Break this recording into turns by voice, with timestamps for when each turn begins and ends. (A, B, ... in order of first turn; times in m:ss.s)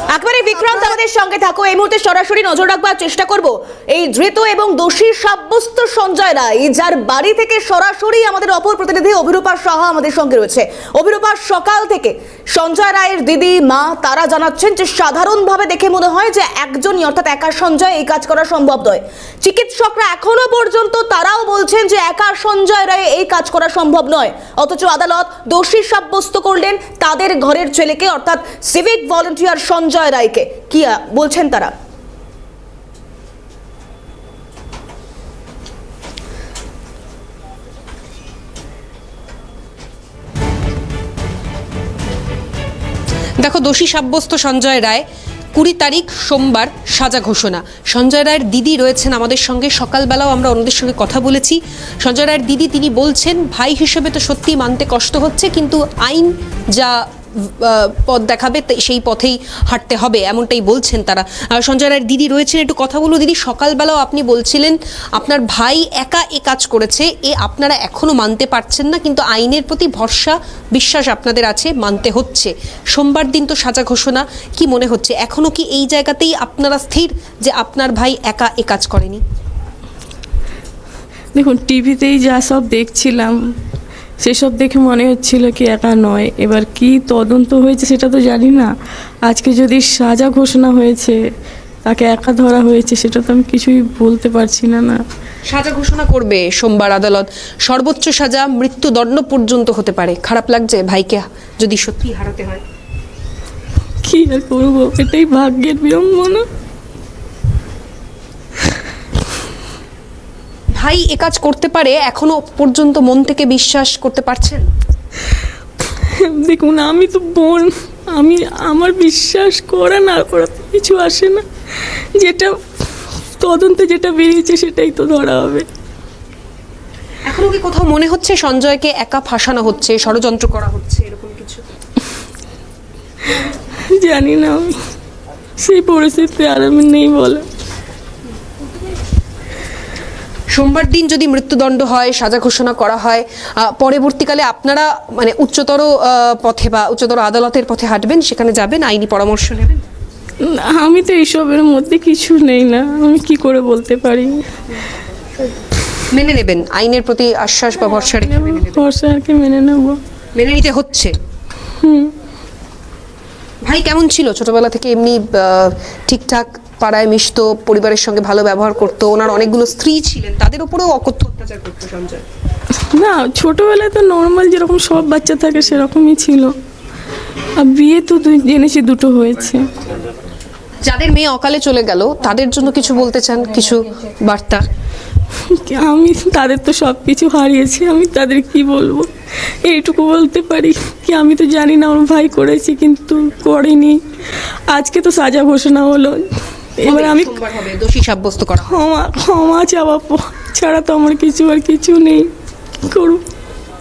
0:00.1-0:31.7 A
0:43.4-1:19.2 B
1:21.3-1:23.4 C
1:24.2-1:28.7 C
1:29.3-1:31.2 C
1:31.9-1:35.0 C
1:35.5-1:42.6 B
1:44.0-1:46.4 C
1:50.8-1:54.7 B
1:56.3-2:01.4 C
2:02.2-2:02.6 C
2:03.4-2:05.6 C
2:07.3-2:11.6 B
2:14.0-2:14.8 C
2:15.6-2:17.4 C
2:20.5-2:29.8 B
2:30.4-2:34.4 C
2:36.1-2:38.8 B
2:38.2-2:40.0 C
2:40.3-2:41.1 B
2:41.8-2:42.1 C
2:43.6-2:52.2 B
2:52.9-2:56.5 C
2:57.6-2:59.6 C
3:00.8-3:04.6 B
3:05.6-3:09.1 C
3:09.7-3:14.0 C
3:14.7-3:16.3 C
3:16.8-3:17.4 C
3:16.8-3:18.7 B
3:18.7-3:22.3 C
3:22.8-3:23.2 C